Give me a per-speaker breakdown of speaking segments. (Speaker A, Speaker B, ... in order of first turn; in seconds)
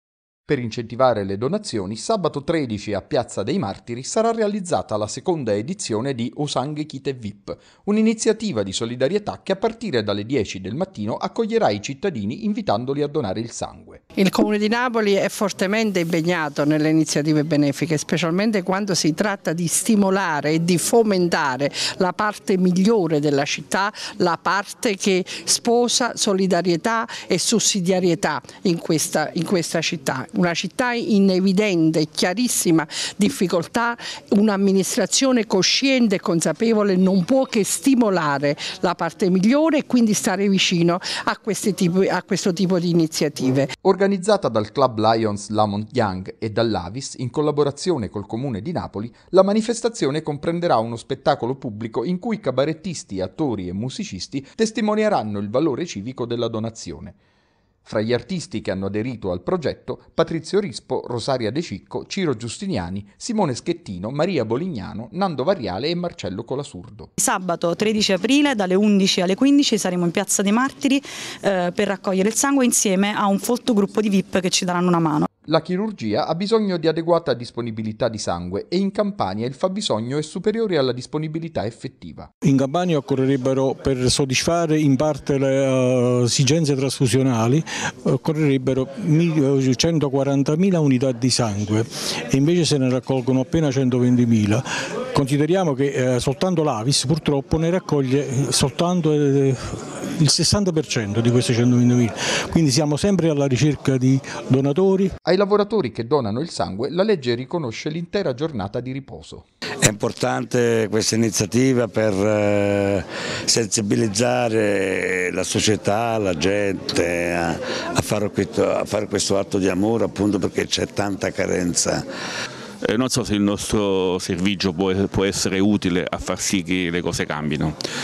Speaker A: 0.5-14.0, 43.8-57.1, 57.8-67.1, 75.5-82.3, 105.2-109.4
Speaker B: 14.2-43.7
Speaker C: 67.2-75.3
Speaker D: 82.4-105.1
Speaker E: 109.8-122.0
Speaker F: 122.8-127.8